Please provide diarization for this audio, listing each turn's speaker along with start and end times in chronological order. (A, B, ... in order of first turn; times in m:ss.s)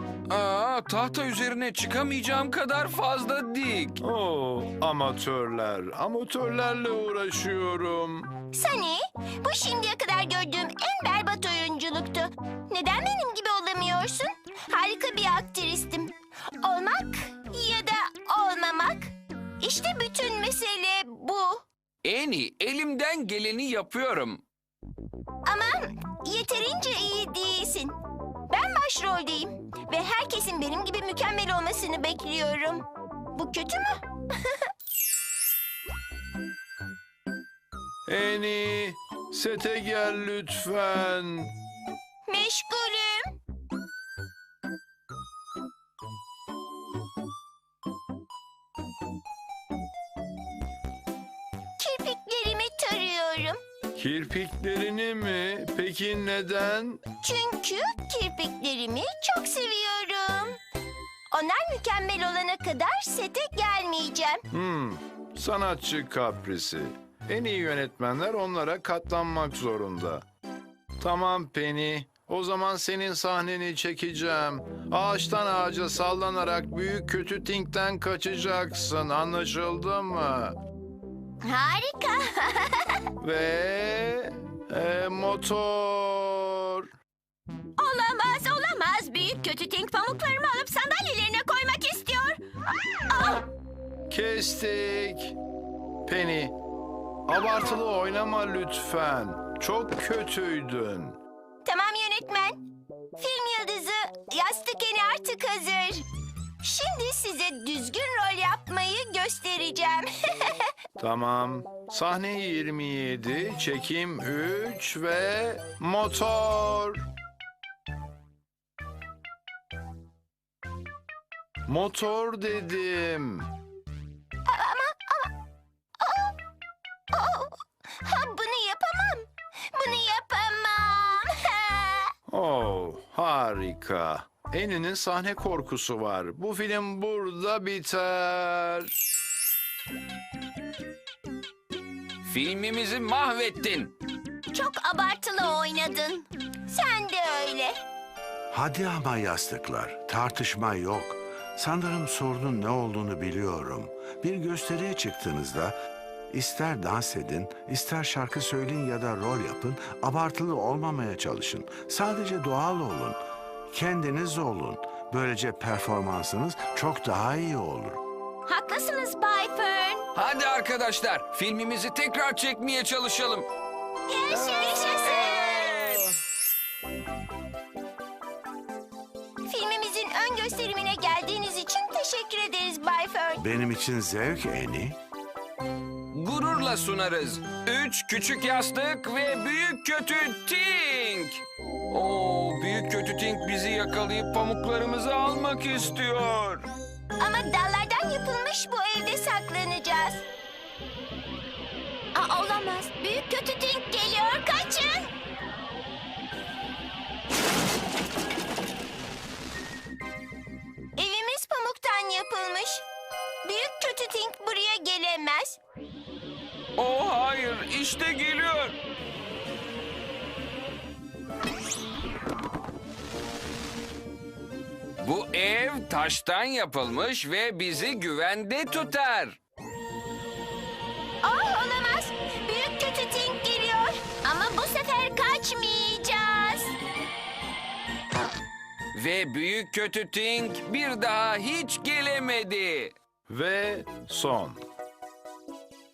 0:00.3-0:04.0 A
0:04.0-0:08.3 B
0:08.5-0:21.6 C
0:22.0-0:24.4 A
0:25.4-0:28.0 C
0:28.5-0:34.7 C
0:38.1-0:41.6 B
0:42.3-0:43.2 C
0:51.8-0:53.6 C
0:54.0-0:57.0 B
0:57.2-1:00.6 C
1:01.3-1:04.4 C
1:04.5-1:10.2 B
1:11.0-1:20.6 B
1:21.4-1:23.0 C
1:23.2-1:26.9 B
1:27.8-1:32.4 C
1:33.1-1:33.4 C
1:34.1-1:35.4 B
1:36.0-1:36.5 B
1:37.3-1:41.2 B
1:41.6-1:42.6 C
1:43.2-1:46.0 C
1:46.6-1:50.7 C
1:51.0-1:57.0 B
2:01.7-2:03.5 B
2:04.5-2:05.3 C
2:06.0-2:06.4 C
2:07.1-2:12.1 C
2:12.3-2:18.9 B
2:22.2-2:23.9 A
2:24.5-2:27.8 C
2:28.5-2:35.8 D
2:36.3-2:48.0 D
2:48.5-2:50.0 C
2:50.2-2:53.5 A
2:54.1-2:55.8 C
2:54.3-2:56.1 A
2:59.5-3:03.4 C
3:03.4-3:05.0 D
3:06.1-3:16.7 A
3:17.2-3:20.2 C
3:22.2-3:25.1 C
3:31.0-3:32.8 C
3:33.4-3:35.6 C
3:36.8-3:38.8 A
3:45.0-3:49.4 A
3:51.2-3:56.7 C
3:59.0-4:02.9 A
4:03.3-4:04.6 B